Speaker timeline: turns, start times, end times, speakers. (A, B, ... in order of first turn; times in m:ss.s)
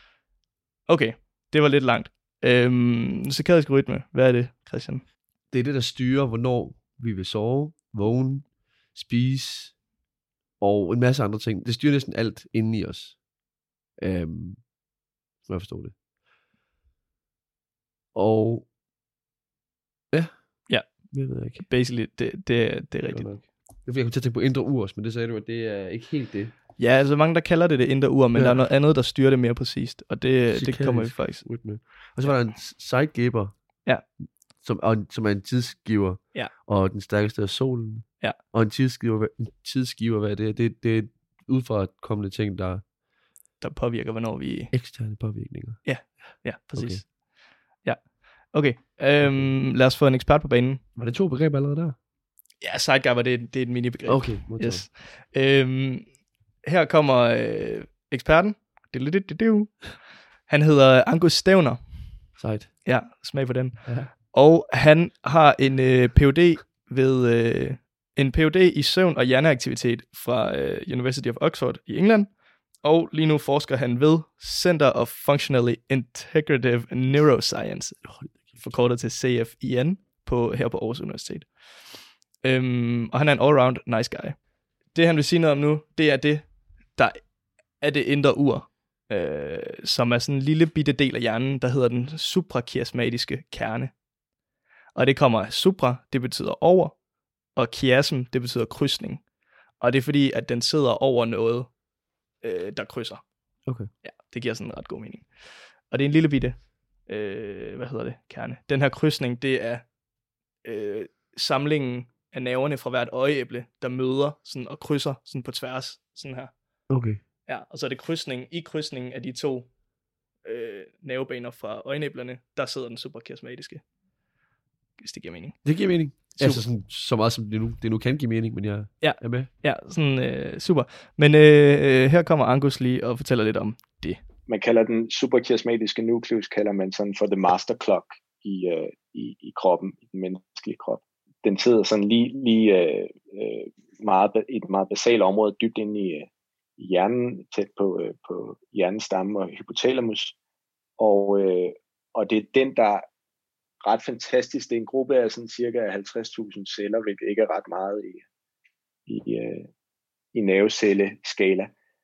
0:00.9-0:05.0 A
0:05.5-0:09.8 B
0:10.6-0:13.2 B
0:14.0-0:14.7 B
0:15.4-0:16.0 B
0:18.1-0:18.7 B
0:20.1-0:21.6 B
0:20.7-0:23.4 A
0:23.1-0:26.5 B
0:26.8-0:31.4 A
0:28.3-0:28.6 B
0:30.5-0:33.5 B
0:34.6-0:42.8 B
0:43.6-0:44.7 A
0:44.7-0:46.1 B
0:45.8-0:47.2 A
0:46.7-0:47.0 B
0:47.8-0:50.8 A
0:49.2-0:49.5 B
0:50.9-0:52.0 B
0:52.6-0:56.1 A
0:54.1-0:54.8 B
0:56.6-1:01.8 A
1:02.4-1:02.7 B
1:02.8-1:21.5 A
1:03.8-1:04.1 B
1:18.0-1:18.6 B
1:22.4-1:24.4 A
1:24.9-1:27.2 A
1:27.8-1:33.9 A
1:34.9-1:37.0 A
1:37.5-1:39.2 A
1:39.8-1:41.7 A
1:42.4-1:43.2 A
1:44.0-1:49.8 A
1:50.6-1:56.5 A
1:56.9-1:57.2 B
1:57.4-1:59.7 A
2:00.4-2:03.8 A
2:05.0-2:06.7 A
2:05.6-2:09.5 B
2:09.0-2:14.2 A
2:14.5-2:30.4 C
2:31.0-2:33.1 C
2:33.8-2:38.2 C
2:39.1-2:39.7 C
2:40.3-2:41.7 C